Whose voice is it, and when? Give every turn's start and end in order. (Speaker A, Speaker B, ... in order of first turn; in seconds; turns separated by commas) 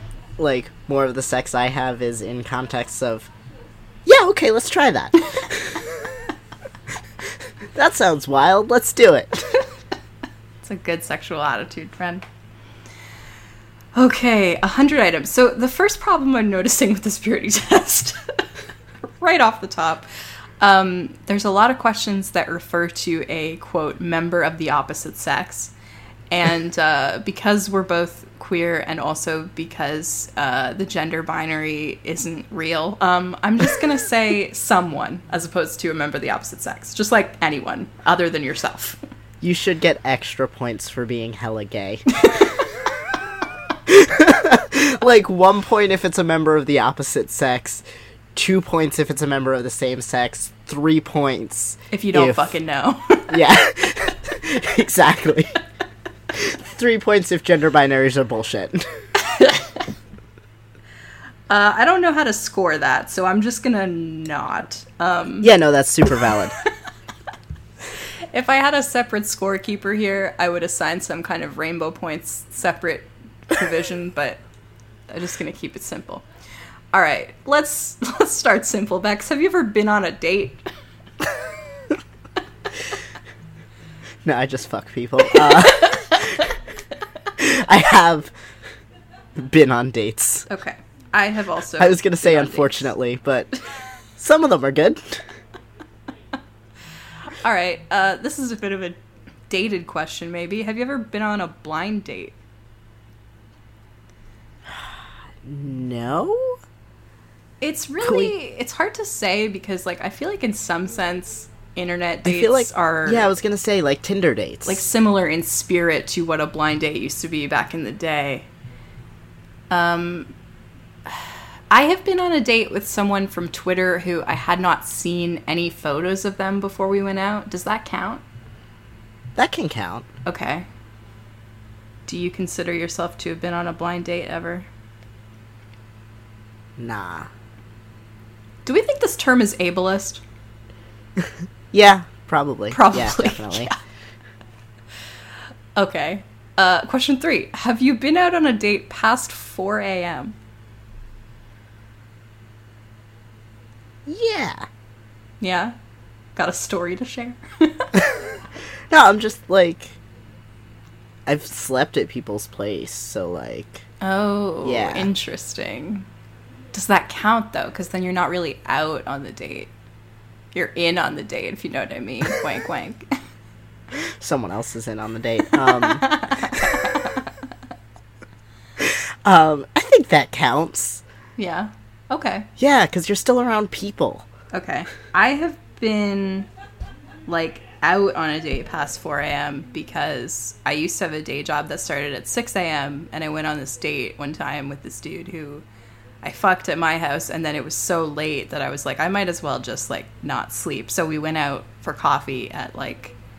Speaker A: 0.4-3.3, Speaker A: 4.0-5.8, Speaker A: 7.7-9.6, Speaker B: 10.6-12.2, Speaker B: 13.9-18.4, Speaker B: 19.0-20.1, Speaker B: 20.6-25.7, Speaker B: 26.3-39.0, Speaker A: 39.4-42.0, Speaker A: 43.9-47.8, Speaker A: 48.4-52.6, Speaker B: 51.9-53.3, Speaker A: 53.3-55.6, Speaker A: 56.3-58.9, Speaker B: 59.3-59.7, Speaker B: 61.5-65.5, Speaker A: 65.4-66.5, Speaker B: 68.3-74.4, Speaker B: 75.1-76.2, Speaker B: 76.9-80.7, Speaker A: 84.2-86.5, Speaker A: 87.4-88.3, Speaker A: 89.4-90.5, Speaker B: 90.5-92.9, Speaker A: 91.8-93.5, Speaker A: 94.2-95.2, Speaker B: 97.3-99.0, Speaker B: 99.5-102.4, Speaker A: 104.7-106.6, Speaker B: 107.6-113.3, Speaker A: 108.0-108.3, Speaker A: 112.2-114.8, Speaker B: 114.7-118.5, Speaker B: 119.7-120.3, Speaker B: 121.1-128.2, Speaker A: 129.3-130.1, Speaker B: 130.2-130.7, Speaker B: 132.1-134.7, Speaker A: 136.8-137.3, Speaker B: 138.7-140.2, Speaker A: 141.2-143.8, Speaker B: 142.7-143.7, Speaker B: 145.8-150.3, Speaker A: 154.1-154.7, Speaker B: 155.4-155.8, Speaker B: 156.4-158.0, Speaker A: 158.9-160.0, Speaker A: 161.3-163.9, Speaker B: 164.0-166.1, Speaker A: 164.6-165.1, Speaker B: 166.7-169.7, Speaker B: 170.5-173.2, Speaker A: 173.9-176.2, Speaker B: 175.8-177.2, Speaker A: 178.8-181.0, Speaker B: 181.4-182.5, Speaker A: 182.6-184.3, Speaker B: 184.5-186.5, Speaker B: 187.3-195.6, Speaker B: 196.2-203.2